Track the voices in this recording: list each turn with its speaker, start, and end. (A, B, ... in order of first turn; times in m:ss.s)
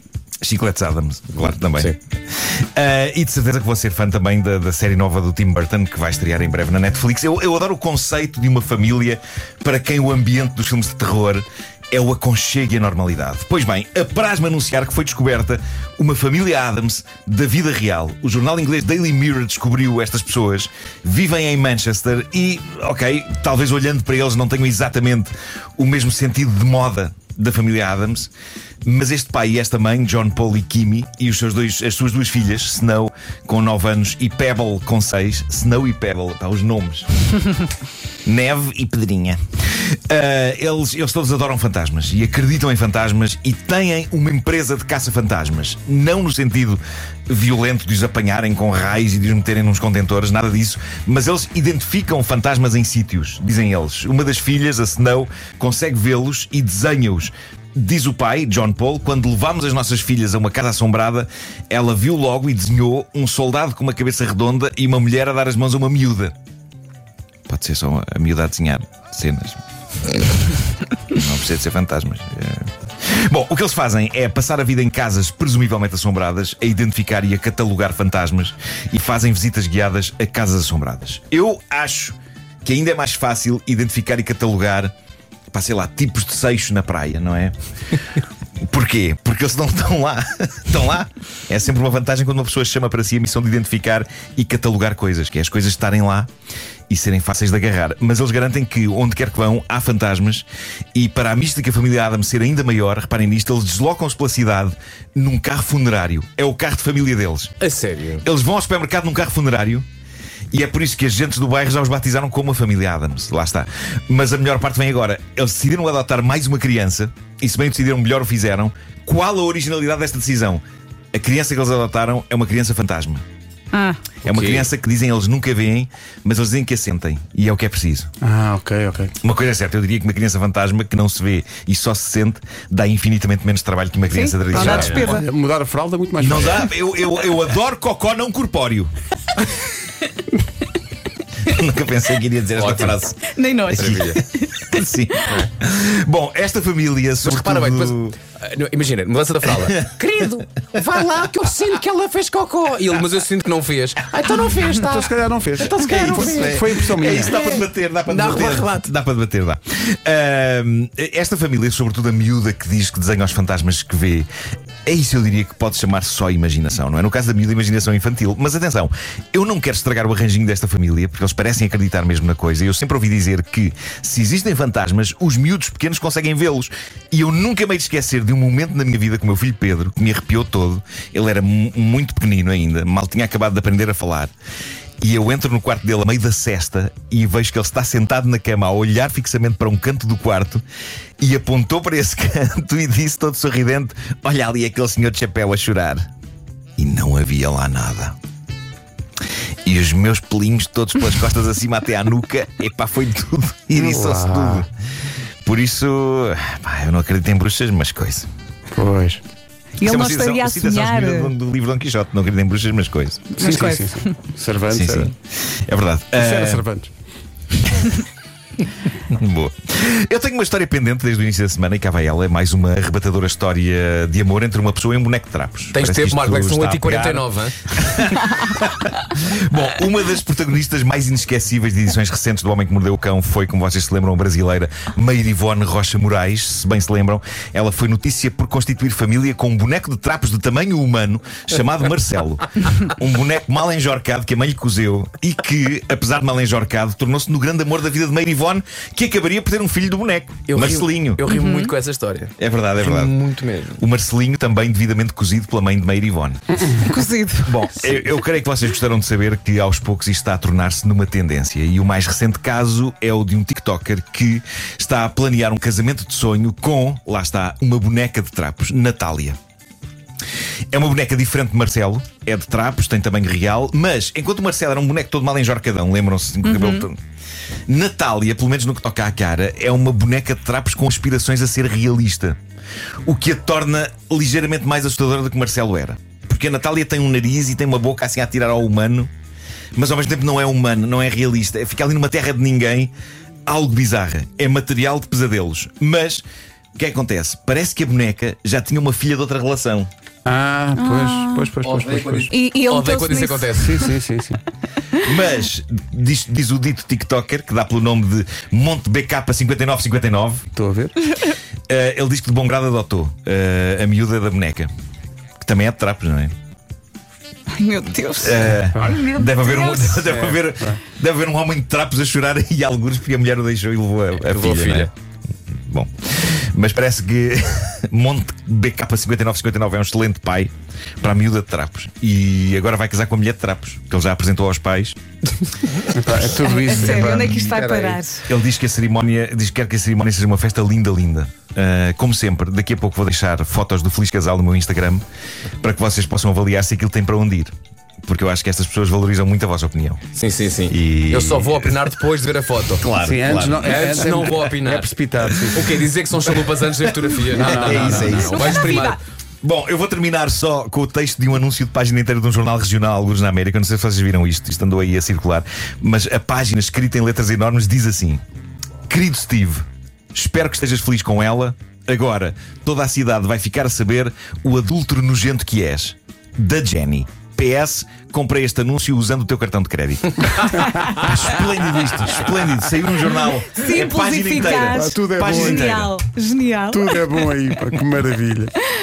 0:00.4-0:28.3 A
0:28.8-0:37.3 A
0:38.3-1:06.4 A
1:07.5-1:09.6 A
1:10.1-1:10.5 A
1:11.1-1:24.9 A
1:25.5-1:27.5 A
1:28.6-1:36.3 A
1:36.9-1:47.5 A
1:47.6-1:48.2 B
1:48.2-1:49.9 A
1:50.5-2:03.2 A
2:03.7-2:04.1 C
2:04.2-2:04.7 B
2:04.2-2:08.1 A
2:08.2-2:09.1 D
2:09.2-2:15.1 A
2:14.1-2:15.3 C
2:14.5-2:16.7 D
2:14.6-2:15.1 B
2:16.2-2:18.9 A
2:21.4-2:28.2 A
2:22.6-2:23.0 B
2:23.3-2:25.4 C
2:23.8-2:24.2 B
2:27.2-2:35.1 B
2:34.7-2:37.4 D
2:35.6-2:44.3 A
2:36.0-2:36.6 B
2:37.3-2:38.9 B
2:44.9-3:04.3 A
3:05.0-3:10.6 A
3:11.2-3:16.1 A
3:16.8-3:18.2 A
3:19.6-3:24.7 A
3:23.8-3:24.7 D
3:25.4-3:28.3 A
3:28.7-3:29.2 D
3:29.8-3:31.3 C
3:29.8-3:33.5 A
3:33.4-3:35.1 D
3:33.4-3:34.1 C
3:34.7-3:36.7 A
3:36.2-3:36.9 D
3:37.6-3:38.0 A
3:38.7-4:11.2 A
3:45.7-3:47.6 B
4:10.5-4:13.8 B
4:11.3-4:11.7 C
4:12.4-4:13.2 A
4:13.8-4:16.6 A
4:16.8-4:17.7 C
4:17.4-4:29.4 A
4:30.7-4:37.0 A
4:36.4-4:36.9 C
4:37.7-4:42.4 A
4:43.1-4:49.1 A
4:49.8-4:52.9 A
4:53.5-4:56.2 A
4:56.8-4:59.9 A
5:00.2-5:02.3 D
5:00.8-5:01.5 C
5:01.6-5:03.8 B
5:02.3-5:03.5 C
5:03.5-5:04.4 D
5:05.0-5:10.5 A
5:10.5-5:11.0 D
5:11.7-5:14.7 A
5:15.4-5:16.3 A
5:17.5-5:20.2 C
5:18.2-5:24.9 A
5:20.2-5:20.8 D
5:24.2-5:24.9 B
5:25.7-5:35.0 A
5:35.9-5:37.6 D
5:36.5-5:38.2 C
5:36.8-5:38.0 B
5:38.3-5:45.0 A
5:45.6-5:47.5 A
5:48.1-5:50.1 A
5:50.2-5:52.9 B
5:50.7-5:51.9 A
5:52.8-5:54.5 A
5:52.9-5:55.8 D
5:53.6-5:54.9 B
5:55.5-5:59.0 B
5:56.4-5:58.6 A
5:57.3-5:58.4 D
5:58.0-5:59.0 C
5:59.4-6:08.2 A
6:08.9-6:25.9 A
6:23.6-6:27.2 C
6:24.7-6:25.7 D
6:26.7-6:28.6 D